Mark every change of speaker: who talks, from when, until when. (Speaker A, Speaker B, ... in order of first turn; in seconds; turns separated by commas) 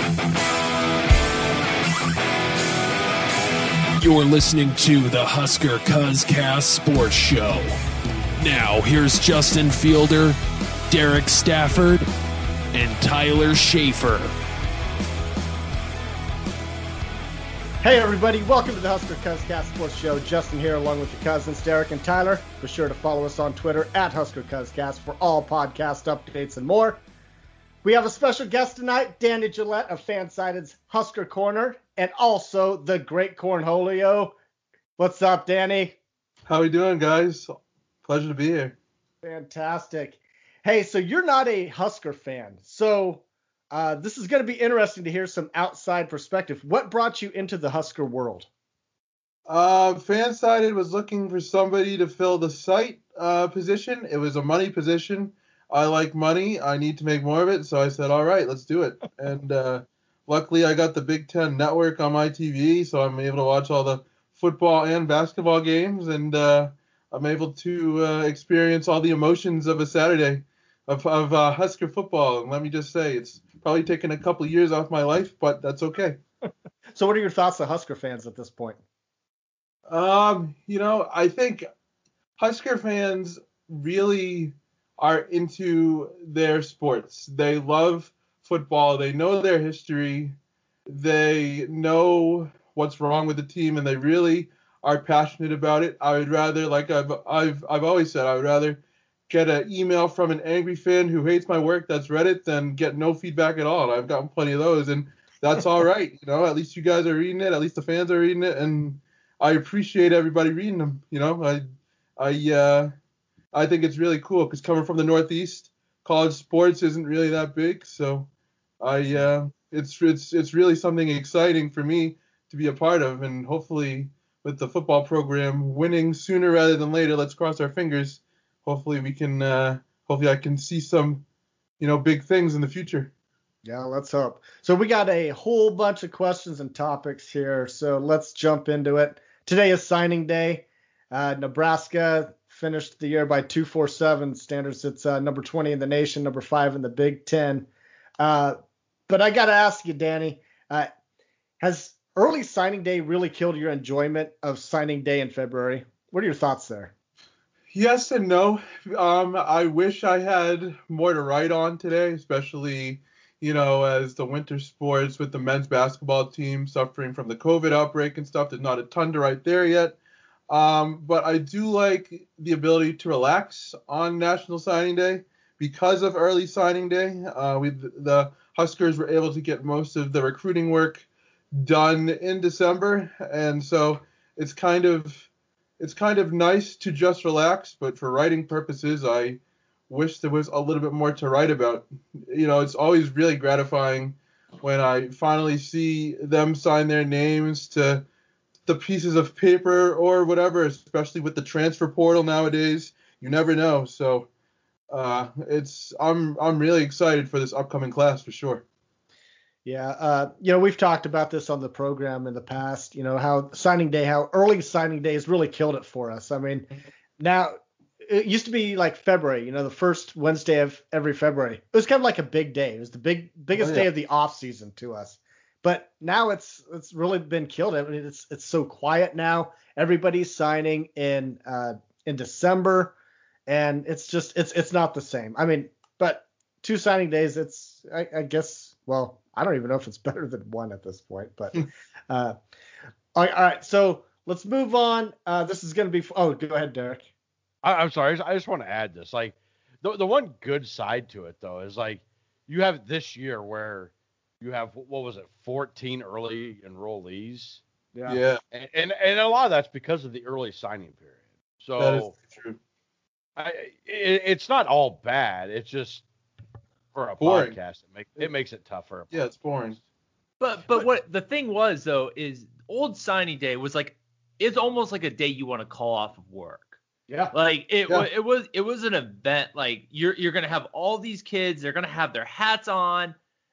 Speaker A: 4.0-7.7, Speaker A: 8.3-10.4, Speaker A: 10.9-12.1, Speaker A: 12.7-14.3, Speaker B: 17.8-27.0, Speaker B: 27.8-34.3, Speaker B: 35.0-36.0, Speaker C: 36.5-38.8, Speaker B: 39.2-48.5, Speaker C: 49.5-76.2, Speaker B: 76.9-78.8, Speaker C: 79.9-81.7, Speaker C: 82.4-111.6, Speaker C: 112.2-112.9, Speaker C: 113.5-118.3, Speaker C: 118.8-131.2, Speaker C: 131.8-133.1, Speaker B: 133.6-147.7, Speaker B: 148.2-148.6, Speaker B: 149.1-150.9, Speaker B: 151.6-156.9, Speaker C: 157.7-170.0, Speaker C: 170.5-198.0, Speaker C: 198.7-204.3, Speaker C: 204.9-208.6, Speaker B: 209.6-216.7, Speaker B: 217.2-232.9, Speaker C: 223.5-223.9, Speaker B: 233.5-242.4, Speaker B: 243.1-247.1, Speaker D: 247.6-262.1, Speaker C: 258.1-258.4, Speaker C: 261.8-262.6, Speaker D: 263.4-266.0, Speaker D: 266.9-269.1, Speaker C: 267.2-267.6, Speaker C: 269.1-269.8, Speaker E: 270.4-276.8, Speaker B: 277.1-277.3, Speaker E: 277.3-283.1